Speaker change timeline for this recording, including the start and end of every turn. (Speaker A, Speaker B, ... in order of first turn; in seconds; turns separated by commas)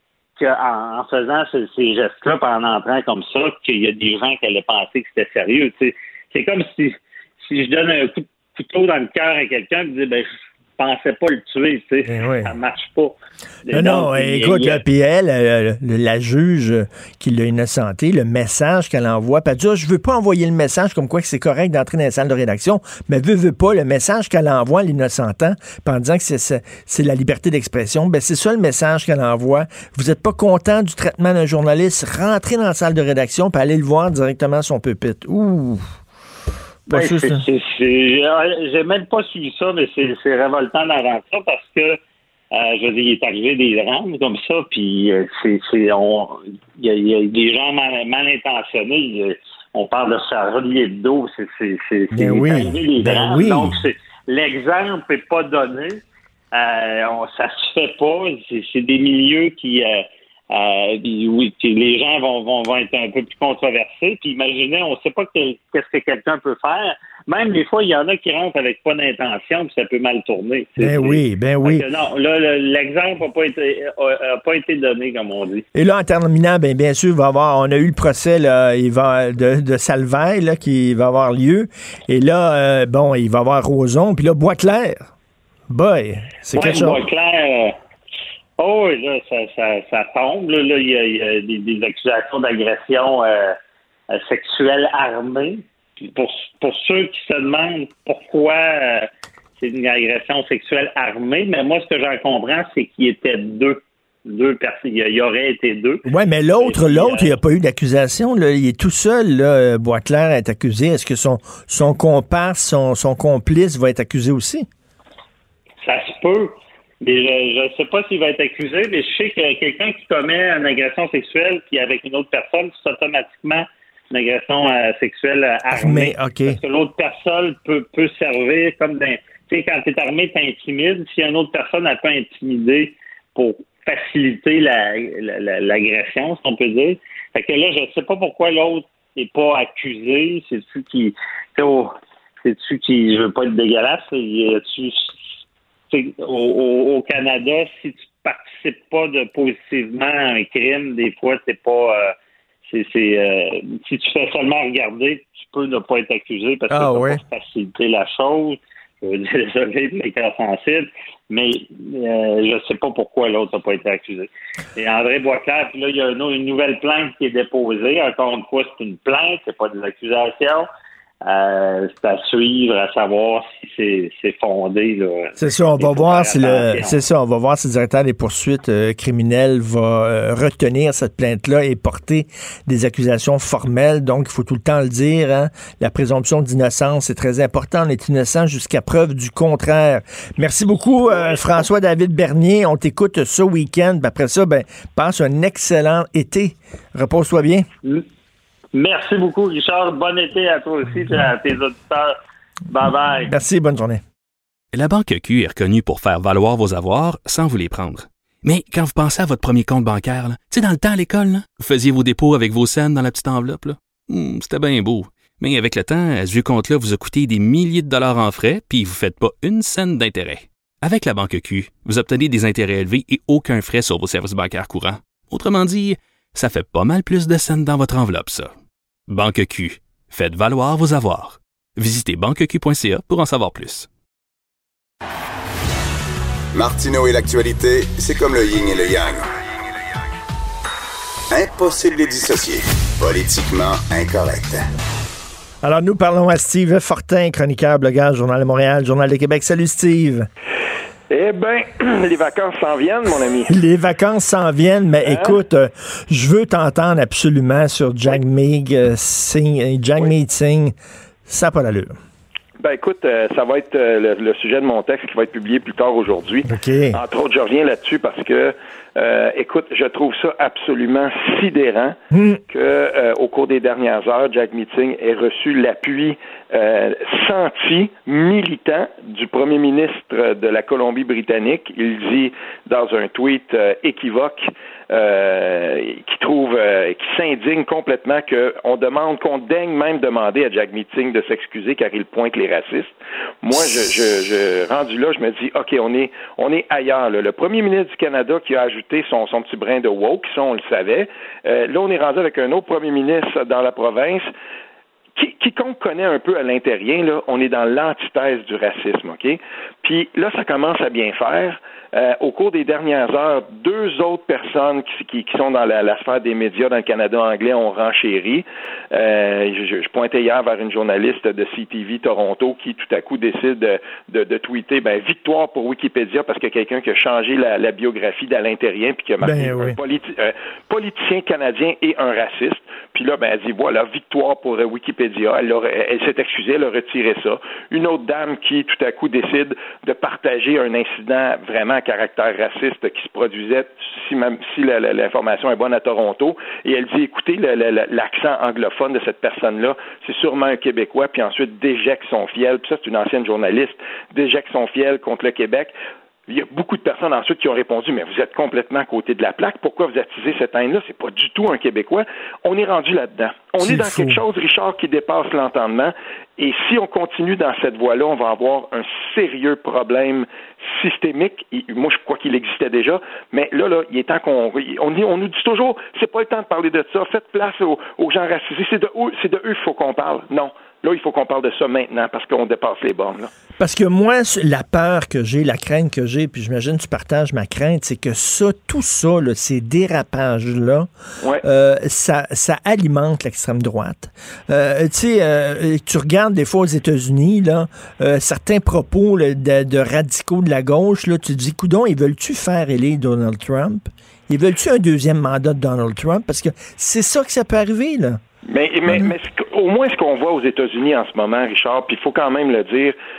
Speaker A: 0.4-14.8, Speaker B: 12.1-12.5, Speaker B: 13.7-35.8, Speaker B: 36.9-37.4, Speaker A: 36.9-42.0, Speaker A: 42.5-56.0, Speaker B: 52.1-53.8, Speaker A: 56.5-75.7, Speaker B: 70.8-71.8, Speaker B: 75.8-85.1, Speaker B: 85.7-87.0, Speaker A: 86.5-87.8, Speaker A: 88.6-93.6, Speaker A: 94.1-99.1, Speaker A: 99.6-106.0, Speaker B: 106.1-114.7, Speaker A: 106.6-107.4, Speaker A: 115.8-145.2, Speaker B: 125.7-126.6, Speaker A: 145.9-152.2, Speaker A: 152.7-170.7, Speaker B: 156.7-157.2, Speaker A: 171.2-177.0, Speaker B: 175.4-197.7, Speaker A: 191.1-191.4, Speaker A: 198.7-202.2, Speaker A: 202.7-203.3, Speaker B: 203.2-204.0, Speaker C: 204.7-228.6, Speaker C: 229.1-233.9, Speaker D: 236.5-239.3, Speaker D: 241.3-244.6, Speaker B: 245.6-250.3, Speaker E: 251.1-253.5, Speaker B: 253.5-260.8, Speaker E: 255.0-255.4, Speaker B: 261.3-262.0, Speaker E: 262.6-272.0, Speaker B: 266.5-267.0, Speaker B: 272.1-272.4, Speaker E: 272.5-304.3, Speaker E: 305.2-355.7, Speaker B: 329.2-329.8, Speaker E: 356.3-383.3, Speaker B: 363.6-364.2, Speaker B: 383.6-390.9, Speaker B: 391.4-408.2, Speaker E: 408.5-413.0